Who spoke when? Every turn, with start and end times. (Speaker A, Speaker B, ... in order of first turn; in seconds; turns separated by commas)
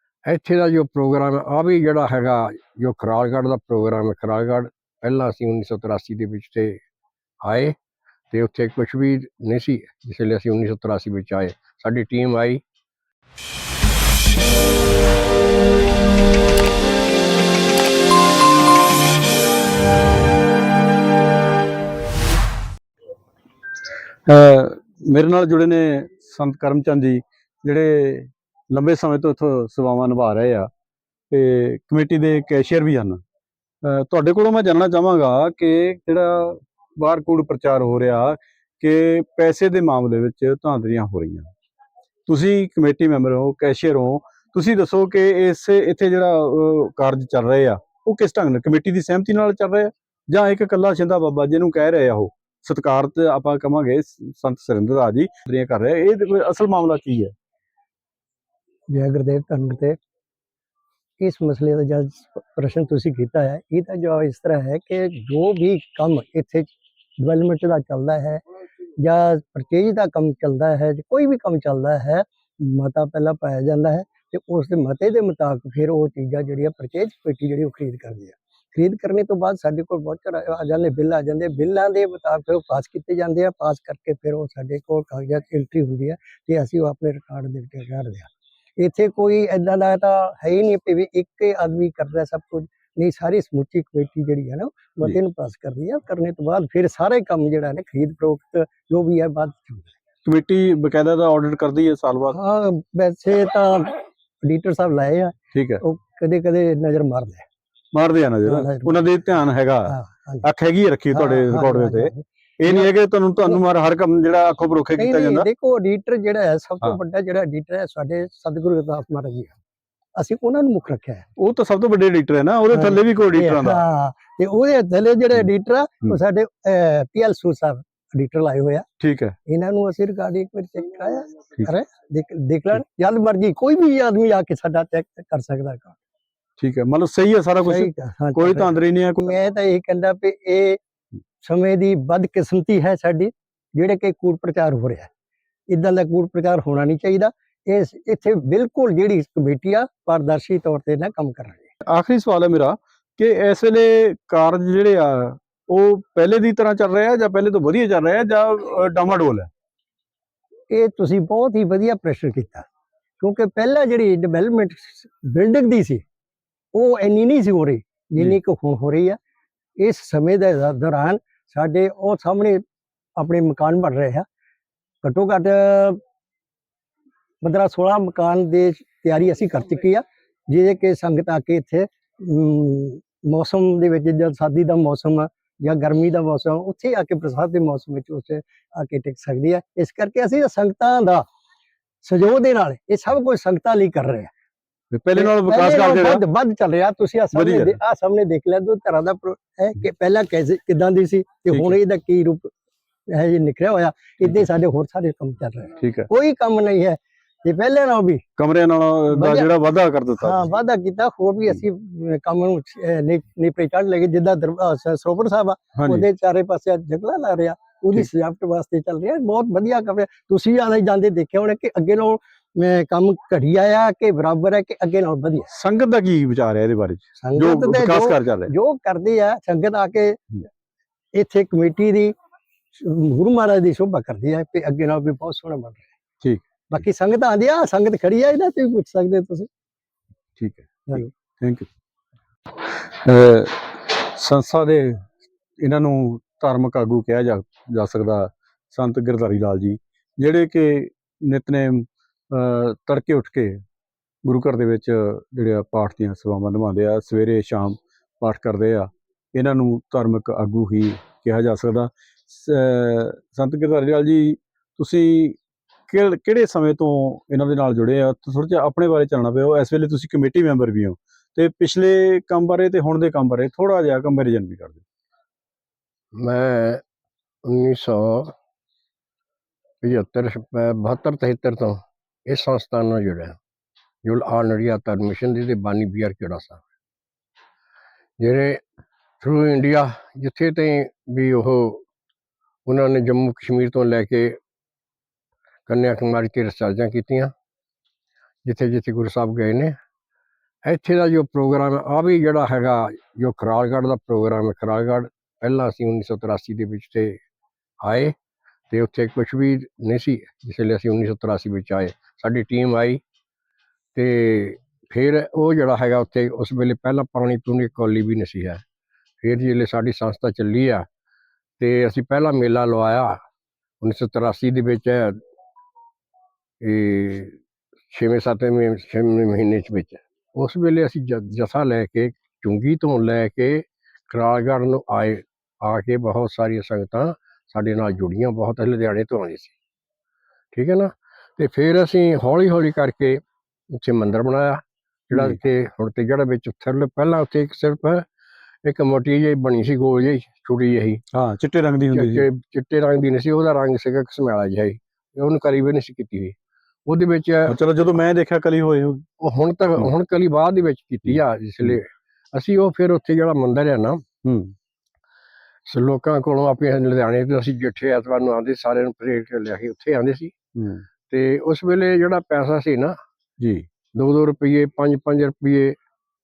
Speaker A: 0.3-6.8, Speaker A: 7.4-7.8, Speaker A: 8.3-12.6, Speaker B: 24.3-30.7, Speaker B: 31.3-33.2, Speaker B: 33.8-41.5, Speaker B: 42.3-57.3, Speaker C: 58.9-60.0, Speaker C: 61.2-68.4, Speaker C: 69.0-99.9, Speaker B: 100.2-102.4, Speaker C: 102.3-107.4, Speaker B: 105.5-105.8, Speaker B: 107.9-115.5, Speaker C: 108.4-109.1, Speaker C: 109.9-110.5, Speaker C: 111.1-112.9, Speaker C: 115.0-119.5, Speaker C: 120.2-121.3, Speaker B: 121.4-123.8, Speaker C: 122.7-128.9, Speaker B: 129.0-129.4, Speaker C: 129.5-136.0, Speaker B: 136.6-139.3, Speaker C: 137.6-140.8, Speaker C: 141.4-145.1, Speaker C: 145.7-151.7, Speaker B: 151.9-159.5, Speaker C: 160.7-162.7, Speaker C: 163.2-166.0, Speaker C: 166.7-169.2, Speaker C: 169.8-172.6, Speaker C: 173.2-174.2, Speaker C: 175.0-176.0, Speaker C: 177.4-191.3, Speaker C: 192.0-194.3, Speaker B: 194.9-196.2, Speaker C: 195.2-202.5, Speaker B: 197.3-197.8, Speaker B: 201.5-201.8, Speaker C: 203.1-208.2, Speaker B: 205.8-206.1, Speaker B: 208.4-210.6, Speaker C: 209.1-209.5, Speaker C: 210.2-225.5, Speaker B: 215.8-216.1, Speaker B: 225.5-228.5, Speaker C: 227.2-230.2, Speaker C: 231.1-232.1, Speaker C: 232.8-235.9, Speaker C: 236.7-239.5, Speaker B: 240.4-241.7, Speaker B: 243.0-245.1, Speaker B: 245.6-253.6, Speaker B: 254.2-265.4, Speaker B: 265.9-274.8, Speaker A: 276.2-276.8, Speaker A: 277.4-278.3, Speaker A: 279.8-283.4, Speaker A: 284.0-286.6, Speaker A: 288.2-288.6, Speaker A: 289.2-291.8, Speaker A: 292.7-294.4, Speaker A: 295.7-297.3, Speaker A: 298.4-299.8, Speaker A: 300.6-307.2, Speaker A: 307.8-308.1, Speaker A: 308.7-313.0, Speaker A: 313.9-318.6, Speaker A: 319.2-320.9, Speaker A: 321.6-323.2, Speaker A: 323.8-325.2, Speaker A: 326.6-327.4, Speaker A: 327.9-339.5, Speaker A: 340.5-343.2, Speaker A: 343.7-348.1, Speaker B: 345.1-345.4, Speaker A: 348.6-351.0, Speaker B: 351.1-352.3, Speaker A: 351.9-356.3, Speaker A: 356.9-357.6, Speaker B: 357.5-359.0, Speaker A: 359.2-364.0, Speaker B: 364.2-364.5, Speaker A: 365.7-370.3, Speaker B: 370.6-370.8, Speaker A: 371.1-372.9, Speaker A: 373.9-375.8